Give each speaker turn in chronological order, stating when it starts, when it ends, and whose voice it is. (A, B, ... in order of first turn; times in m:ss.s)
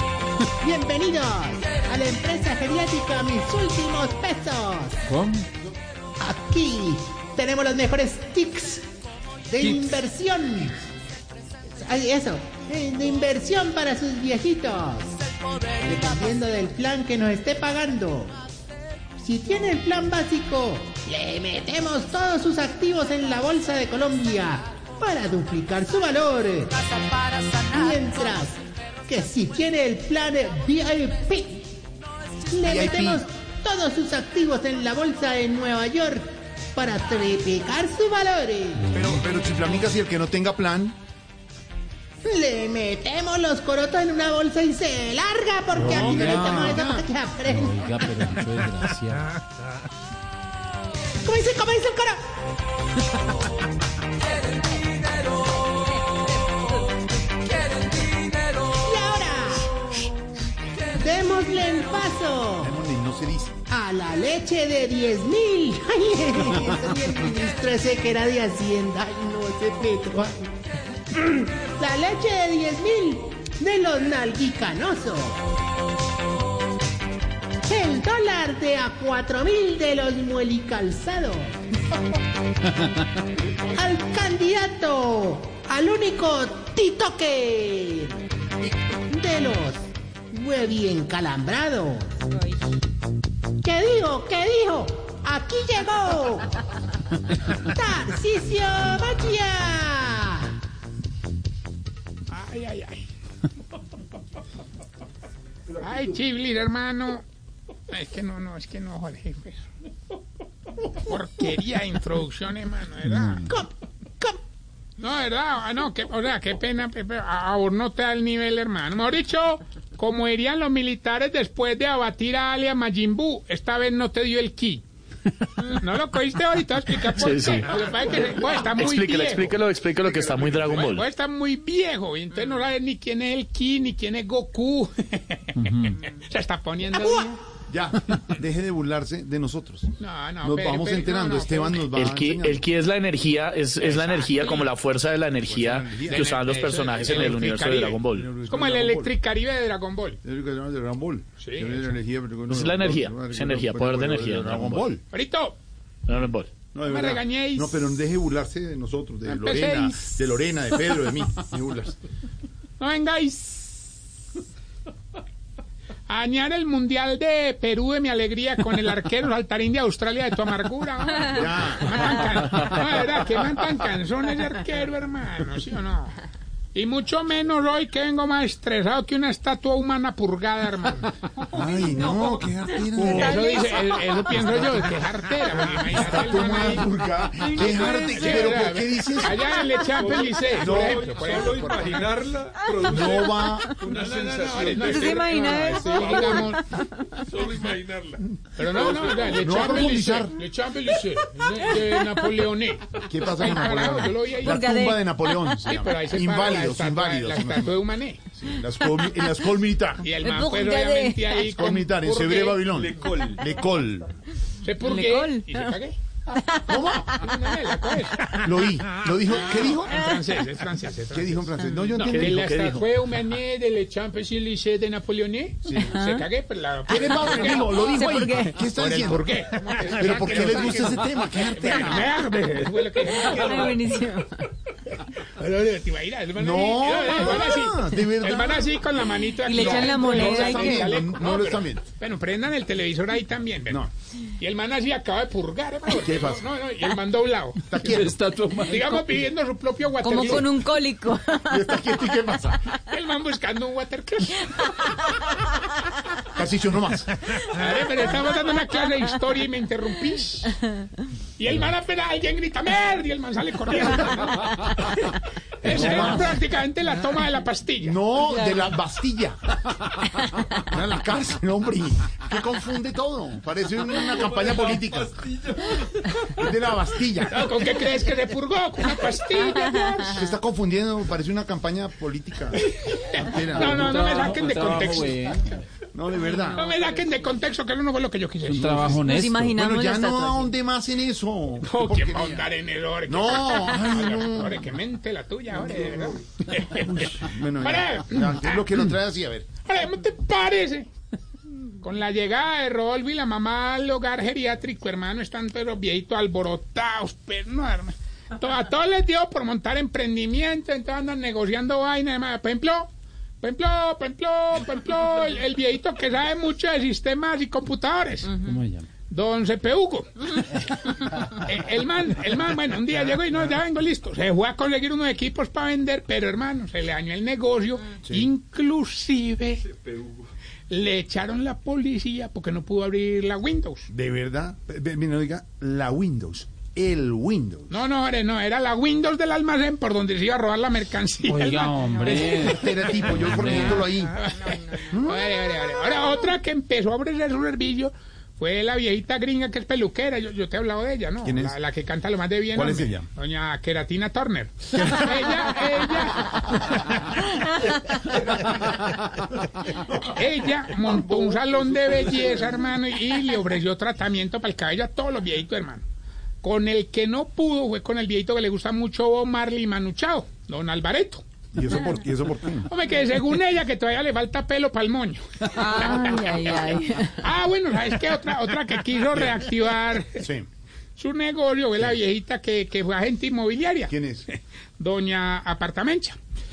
0:00.6-0:05.0 A
0:05.1-0:05.4 B
0:06.2-0:08.9 A
0:09.5-0:10.9 A
0:11.7-0:15.2 A
0:15.8-0:18.3 A
0:19.2-0:26.7 A
0:27.6-0:31.7 A
0:32.5-0:39.0 A
0:32.6-0:33.2 C
0:38.8-0:39.2 B
0:38.9-0:40.9 C
0:42.2-0:48.4 A
0:45.7-0:46.7 B
0:45.8-0:47.1 C
0:47.5-0:49.2 B
0:51.2-0:52.2 A
0:58.8-0:59.8 A
1:00.9-1:02.8 A
1:02.6-1:03.6 C
1:03.7-1:10.5 A
1:11.1-1:15.4 A
1:17.7-1:21.6 A
1:23.7-1:28.2 A
1:29.1-1:32.1 A
1:33.6-1:36.6 A
1:37.6-1:40.6 A
1:42.3-1:43.1 D
1:45.8-1:47.2 D
1:47.9-1:49.6 D
1:51.0-1:53.5 D
1:53.4-1:54.4 A
1:55.0-2:04.8 D
2:05.6-2:09.6 D
2:07.0-2:11.0 E
2:10.1-2:10.9 C
2:10.2-2:17.4 D
2:15.6-2:16.0 B
2:17.7-2:19.9 C
2:20.0-2:21.9 D
2:20.4-2:22.6 C
2:21.9-2:28.3 E
2:23.8-2:24.7 D
2:25.4-2:26.3 C
2:26.1-2:30.2 D
2:27.0-2:27.5 C
2:28.1-2:29.1 C
2:30.2-2:35.0 C
2:31.4-2:31.9 D
2:32.5-2:34.9 E
2:35.1-2:35.6 D
2:36.0-2:36.5 E
2:36.7-2:42.0 C
2:36.8-2:37.8 D
2:39.2-2:40.2 D
2:42.8-2:44.0 D
2:46.1-3:01.1 D
2:51.2-2:52.2 C
3:01.5-3:03.6 C
3:03.0-3:04.1 F
3:03.0-3:06.9 D
3:04.3-3:04.8 C
3:05.6-3:09.5 C
3:07.4-3:08.3 F
3:07.5-3:12.2 D
3:10.0-3:13.2 G
3:10.5-3:11.1 C
3:12.6-3:13.8 F
3:12.8-3:13.8 C
3:13.8-3:16.2 G
3:13.9-3:16.6 D
3:14.7-3:17.4 F
3:17.3-3:18.2 G
3:18.6-3:24.6 D
3:18.9-3:20.4 C
3:19.0-3:19.3 G
3:23.0-3:30.1 C
3:24.4-3:25.6 F
3:25.6-3:28.2 D
3:30.0-3:32.8 D
3:30.1-3:31.4 F
3:31.4-3:34.1 C
3:32.8-3:33.3 B
3:34.6-3:36.0 D
3:34.8-3:35.7 F
3:36.6-3:37.1 C
3:37.1-3:38.3 D
3:38.3-3:40.0 C
3:39.5-3:47.9 D
3:41.1-3:42.5 C
3:42.1-3:42.9 E
3:45.6-3:46.0 C
3:45.8-3:46.2 F
3:46.9-3:52.2 C
3:47.7-3:48.6 F
3:48.7-3:53.9 D
3:53.2-3:54.4 F
3:55.2-4:10.5 D
3:56.4-3:58.7 C
3:59.4-4:01.0 F
3:59.5-4:01.8 C
4:05.9-4:06.4 C
4:07.6-4:08.2 C
4:07.9-4:08.9 B
4:10.0-4:11.6 F
4:11.4-4:12.6 C
4:12.8-4:14.7 D
4:16.3-4:17.1 C
4:17.4-4:20.6 D
4:21.4-4:28.0 D
4:25.6-4:26.4 C
4:27.8-4:35.3 C
4:28.3-4:28.6 F
4:36.2-4:37.5 C
4:37.2-4:40.3 D
4:40.1-4:42.6 C
4:42.5-4:45.3 D
4:43.1-4:44.6 C
4:43.3-4:45.6 B
4:45.9-4:46.7 C
4:46.2-4:47.1 F
4:46.5-4:49.0 D
4:48.4-4:49.6 B
4:49.0-4:50.5 F
4:49.5-4:52.5 C
4:51.6-4:58.7 D
4:53.1-4:54.6 C
4:56.7-4:59.5 C
4:59.6-5:00.9 D
5:01.8-5:18.3 D
5:18.3-5:18.9 B
5:19.1-5:29.7 D
5:30.7-5:33.9 D
5:33.9-5:37.8 C
5:37.7-5:57.1 D
5:41.2-5:43.9 B
5:42.0-5:44.2 C
5:44.9-5:45.7 C
5:51.2-5:51.6 C
5:52.5-5:53.1 C
5:54.7-5:55.5 C
6:00.0-6:05.8 D
6:06.4-6:11.2 D
6:11.5-6:12.7 C
6:12.7-6:20.3 D
6:15.5-6:17.2 F
6:20.2-6:20.5 C
6:21.0-6:26.2 D
6:23.9-6:24.3 C